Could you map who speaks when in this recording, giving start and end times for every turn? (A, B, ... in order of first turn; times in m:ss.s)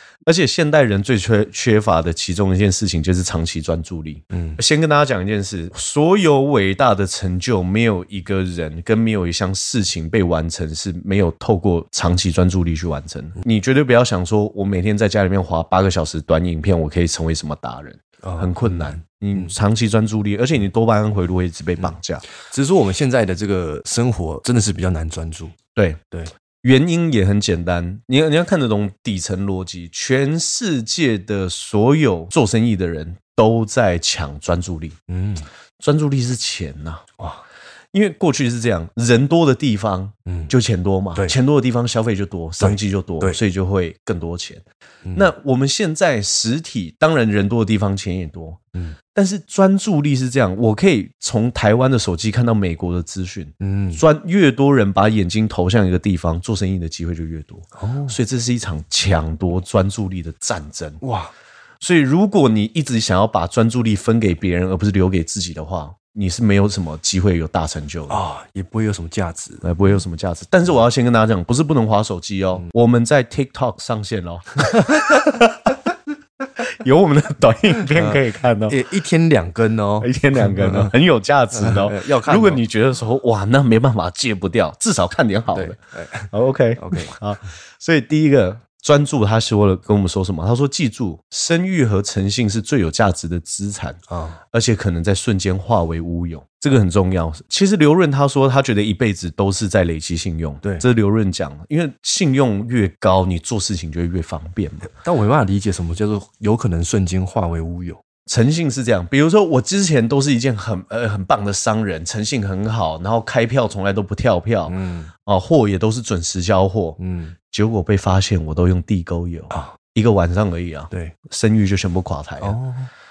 0:00.2-0:22.2 A
0:04.3-0:04.6 B
0:18.2-0:19.5 B
0:21.8-0:25.6 B
0:25.8-0:26.0 A
0:26.6-0:35.0 A
0:35.1-0:35.5 B
0:35.8-0:37.1 A
0:37.9-0:44.6 A
0:40.3-0:40.5 B
0:42.6-0:43.4 B
0:45.0-0:45.3 B
0:45.2-0:48.6 A
0:49.1-1:01.0 A
0:53.6-0:54.0 B
0:57.8-0:58.2 B
1:01.0-1:01.3 B
1:01.8-1:08.2 A
1:08.1-1:09.6 B
1:09.6-1:15.8 A
1:16.6-1:18.8 A
1:18.0-1:20.9 B
1:20.0-1:25.8 A
1:21.5-1:22.6 B
1:25.5-1:27.2 B
1:26.3-1:34.0 A
1:34.1-1:34.4 B
1:34.5-1:44.9 A
1:45.0-1:48.0 B
1:48.3-1:57.0 A
1:54.7-1:55.1 B
1:57.0-1:57.4 B
1:57.5-2:02.6 A
1:59.5-1:59.8 B
2:02.4-2:02.9 B